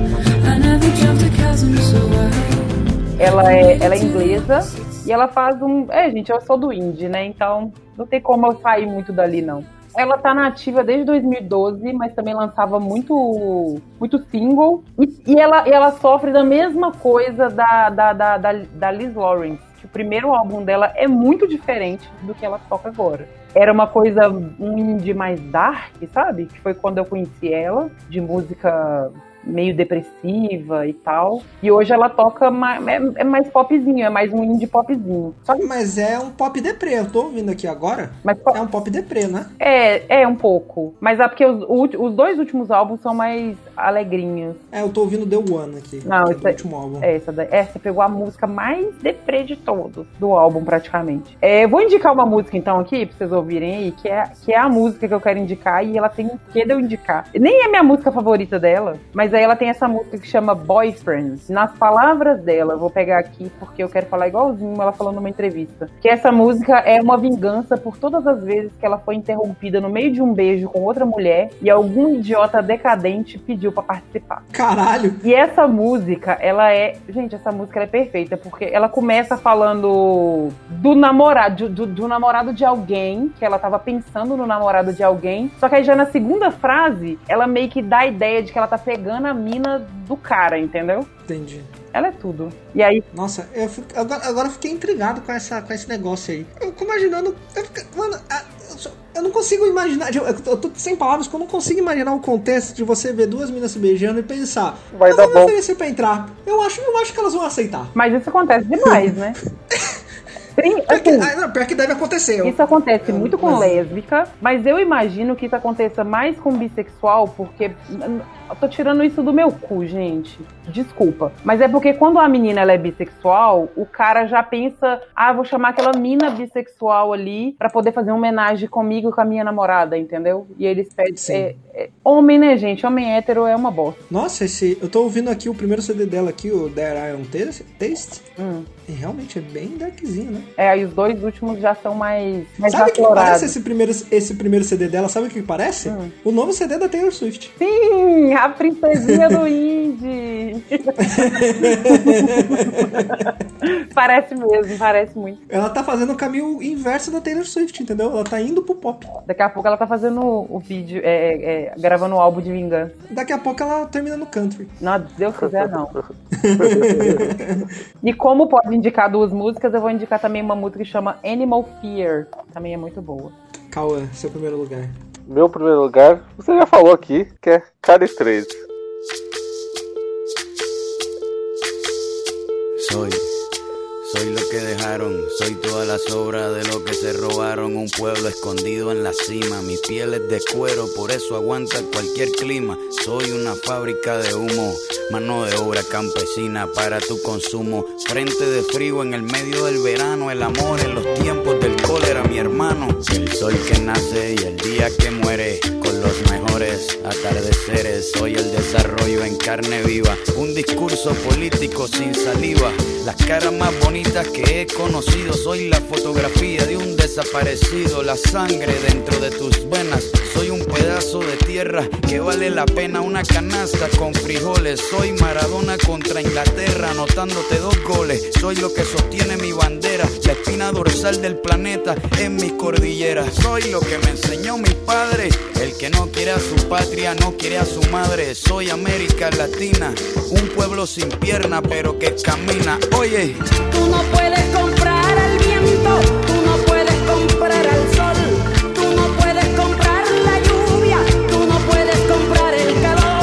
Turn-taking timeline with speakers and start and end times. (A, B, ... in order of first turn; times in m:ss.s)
0:00.4-0:04.6 A
0:03.2-0:35.6 B
0:35.6-0:39.5 C
0:38.2-0:38.6 B
0:39.6-0:44.6 B
0:44.7-0:47.1 C
0:46.1-1:14.4 B
1:14.5-1:15.2 C
1:15.2-1:31.1 B
1:31.3-1:31.7 C
1:31.9-1:33.0 B
1:33.1-1:47.9 C
1:44.9-1:45.6 D
1:48.0-1:49.4 B
1:49.7-1:50.0 C
1:50.6-1:51.3 B
1:50.9-1:53.9 C
1:52.4-2:14.0 B
2:11.1-2:11.5 C
2:14.1-2:18.2 C
2:18.4-2:18.7 B
2:18.9-2:20.5 C
2:20.6-2:23.5 B
2:22.7-2:27.5 C
2:25.9-2:26.1 B
2:27.6-2:35.4 B
2:29.0-2:29.4 C
2:31.0-2:33.2 C
2:35.5-2:39.1 C
2:39.3-2:43.0 B
2:43.1-2:44.7 C
2:44.8-2:46.0 B
2:46.4-2:47.7 C
2:46.6-2:47.4 D
2:48.0-2:53.3 B
2:53.7-2:54.9 C
2:55.3-2:58.6 D
3:02.8-3:03.2 E
3:04.0-4:03.4 E
4:03.7-4:09.7 A
4:11.2-4:12.2 A